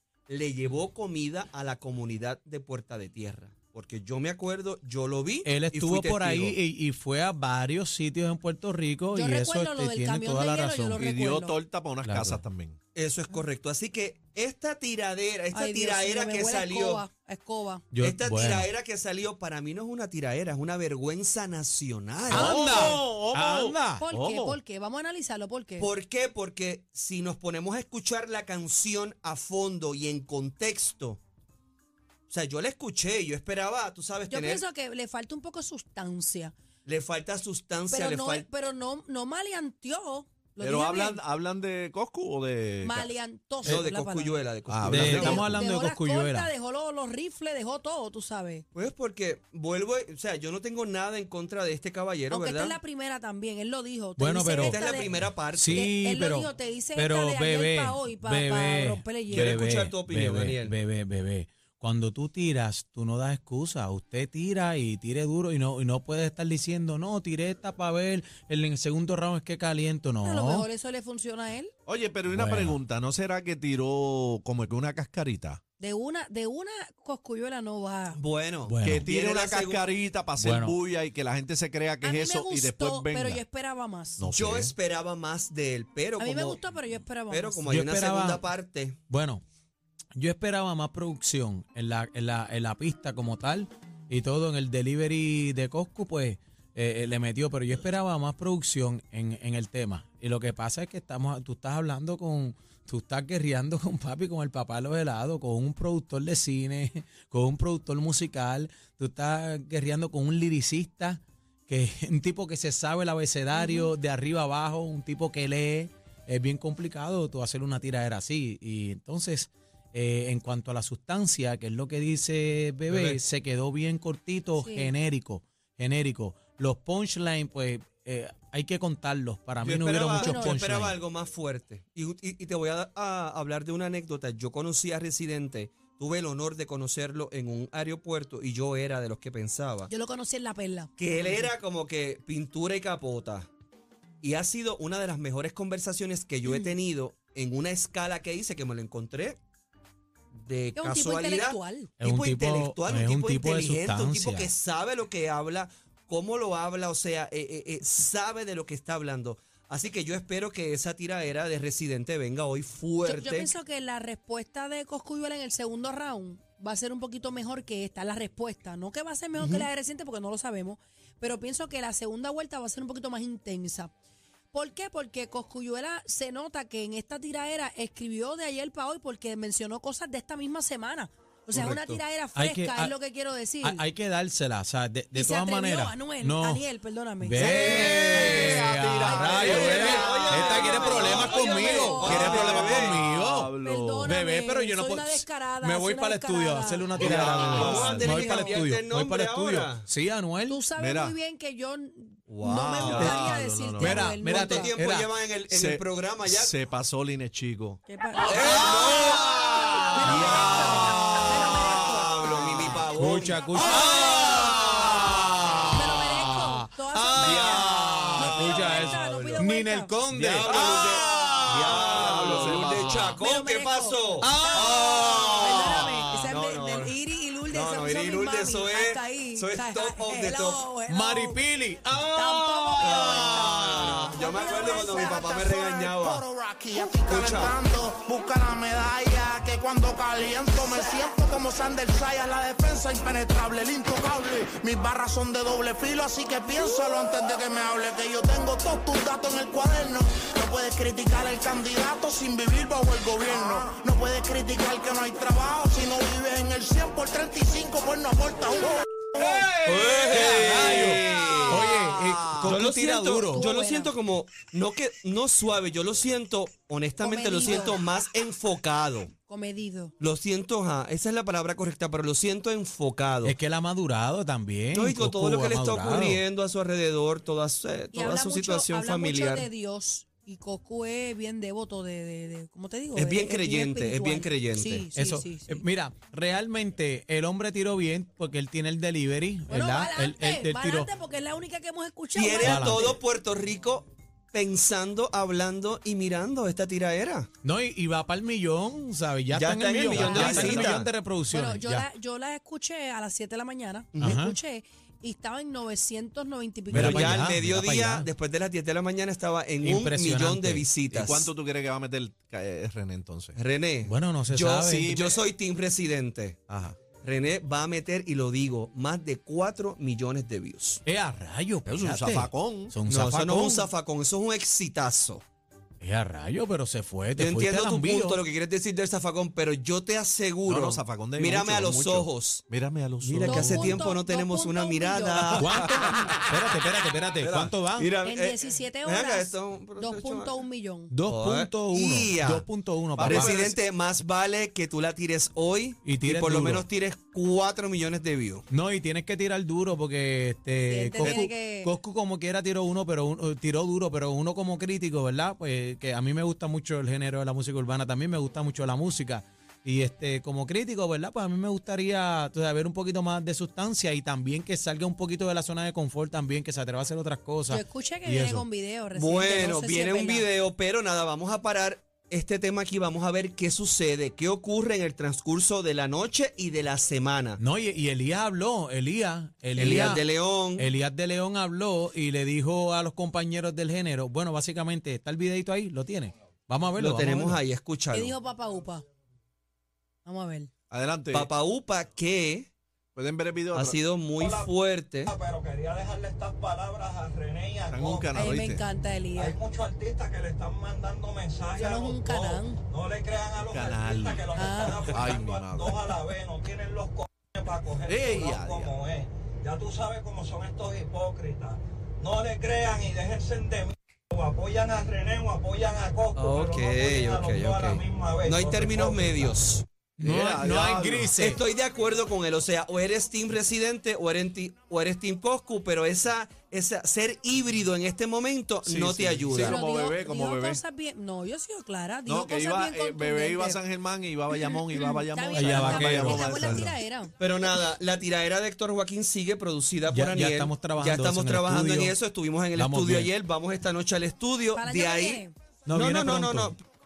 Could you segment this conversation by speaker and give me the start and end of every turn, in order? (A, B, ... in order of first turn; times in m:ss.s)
0:00.3-0:06.6 A
0:05.4-0:11.0 B
0:09.1-0:11.6 C
0:11.0-0:12.8 D
0:12.0-0:12.4 B
0:12.9-0:17.0 A
0:15.5-0:17.8 C
0:17.9-0:18.7 B
0:18.0-0:23.0 A
0:22.3-0:24.0 B
0:22.3-0:24.6 D
0:24.0-0:25.9 C
0:25.8-0:31.2 A
0:32.3-0:34.6 A
0:34.3-0:36.5 C
0:36.8-0:38.4 A
0:37.9-0:41.2 C
0:40.6-0:43.1 D
0:42.8-0:44.4 C
0:43.6-0:45.5 A
0:44.7-0:45.6 D
0:44.8-0:46.5 B
0:45.1-0:48.6 C
0:48.7-0:52.8 A
0:52.3-0:55.2 C
0:54.2-0:54.8 B
0:54.6-0:55.9 A
0:55.5-1:10.7 B
0:55.7-0:59.5 C
0:59.3-1:00.8 A
1:10.2-1:11.7 C
1:11.8-1:15.6 D
1:12.3-1:12.8 B
1:15.8-1:18.2 C
1:18.2-1:19.9 A
1:18.6-1:19.1 B
1:18.8-1:23.4 D
1:20.4-1:20.8 B
1:22.0-1:24.2 C
1:24.2-1:24.7 D
1:24.3-1:26.6 A
1:26.2-1:27.6 C
1:27.3-1:29.0 A
1:27.7-1:28.4 B
1:29.1-1:29.4 B
1:30.1-2:11.0 B
1:53.5-1:53.9 C
2:02.9-2:03.2 A
2:04.6-2:04.9 C
2:09.6-2:19.9 A
2:10.2-2:10.6 C
2:19.9-2:20.9 C
2:21.0-2:23.5 A
2:24.2-2:29.4 A
2:26.4-2:26.7 C
2:30.3-2:43.5 A
2:30.8-2:31.9 C
2:32.0-2:34.5 B
2:43.0-2:53.9 C
2:49.4-2:49.7 A
2:54.5-3:03.8 C
3:01.5-3:02.9 B
3:03.6-3:06.6 B
3:05.1-3:12.5 C
3:07.2-3:13.5 B
3:07.4-3:14.1 D
3:09.3-3:13.0 A
3:13.6-3:17.1 C
3:14.0-3:20.6 B
3:17.0-3:18.2 D
3:17.0-3:19.9 A
3:20.5-3:24.7 C
3:20.8-3:21.2 D
3:22.3-3:23.2 A
3:22.8-3:24.0 D
3:22.9-3:23.2 B
3:23.8-3:25.1 B
3:24.2-3:26.5 A
3:25.5-3:27.8 D
3:27.8-3:29.0 C
3:28.2-3:31.7 B
3:28.2-3:31.0 A
3:29.9-3:32.4 C
3:31.7-3:34.4 A
3:32.6-3:42.3 B
3:33.5-3:34.6 C
3:35.7-3:39.9 C
3:37.2-3:37.5 A
3:37.7-3:38.1 D
3:38.2-3:39.5 A
3:40.1-3:47.0 A
3:40.4-3:43.2 D
3:43.0-3:51.4 C
3:44.2-3:46.1 B
3:47.5-3:50.6 A
3:50.9-3:54.2 B
3:52.1-3:53.4 C
3:52.8-3:57.5 A
3:54.2-3:55.3 C
3:54.3-4:19.4 E
4:19.2-4:23.5 B
4:19.6-4:29.1 A
4:23.3-4:23.9 C
4:27.0-4:27.8 C
4:29.3-4:29.9 C
4:30.0-4:33.4 A
4:33.2-4:36.2 B
4:34.7-4:39.5 A
4:37.9-4:45.6 C
4:42.9-4:44.8 A
4:44.9-4:50.9 B
4:49.5-4:53.0 C
4:52.1-4:57.3 A
4:52.4-4:53.0 B
4:57.4-5:01.8 B
4:59.3-5:00.9 A
4:59.8-5:00.8 C
5:01.3-5:07.2 C
5:03.9-5:04.2 A
5:04.0-5:04.4 B
5:06.7-5:08.1 B
5:06.7-5:11.3 A
5:09.6-5:10.7 B
5:10.9-5:13.4 D
5:13.4-5:16.4 A
5:13.8-5:15.0 B
5:14.6-5:15.2 D
5:16.5-5:16.8 D
5:17.0-5:20.8 A
5:20.8-5:23.7 B
5:21.6-5:22.7 D
5:22.9-5:25.2 A
5:25.8-5:28.2 B
5:27.2-5:32.4 A
5:30.5-5:33.9 D
5:33.0-5:35.4 A
5:33.2-5:36.2 C
5:35.3-5:36.4 D
5:35.4-5:37.9 B
5:37.2-5:37.5 D
5:37.8-5:40.3 A
5:38.0-5:40.9 C
5:40.9-5:43.3 B
5:41.1-5:42.5 A
5:43.0-5:43.6 D
5:43.0-5:48.4 A
5:45.8-5:46.6 B
5:48.5-6:08.4 B
5:50.7-5:51.7 C
6:07.5-6:10.2 C
6:08.9-6:17.4 A
6:17.4-6:27.4 B
6:19.6-6:20.7 A
6:26.8-6:28.1 A
6:27.9-6:28.8 C
6:30.0-6:30.5 C
6:30.7-6:31.3 D
6:31.1-6:32.5 A
6:32.9-6:33.8 D
6:33.5-6:35.1 A
6:34.2-6:34.5 F
6:35.0-6:38.2 F
6:37.7-6:38.6 D
6:38.1-6:39.4 C
6:39.2-6:59.3 F
6:41.6-6:42.6 C
6:43.4-6:45.8 D
6:44.3-6:44.9 C
6:47.8-6:48.8 D
6:56.1-6:59.6 A
7:00.0-7:01.4 B
7:00.0-7:01.1 D
7:01.2-7:09.6 A
7:08.6-7:10.6 D
7:09.3-7:13.6 C
7:12.1-7:16.8 D
7:14.3-7:17.1 C
7:15.3-7:16.3 B
7:16.2-7:26.6 A
7:19.9-7:22.0 B
7:22.5-7:23.1 B
7:24.5-7:25.3 C
7:25.6-7:26.6 B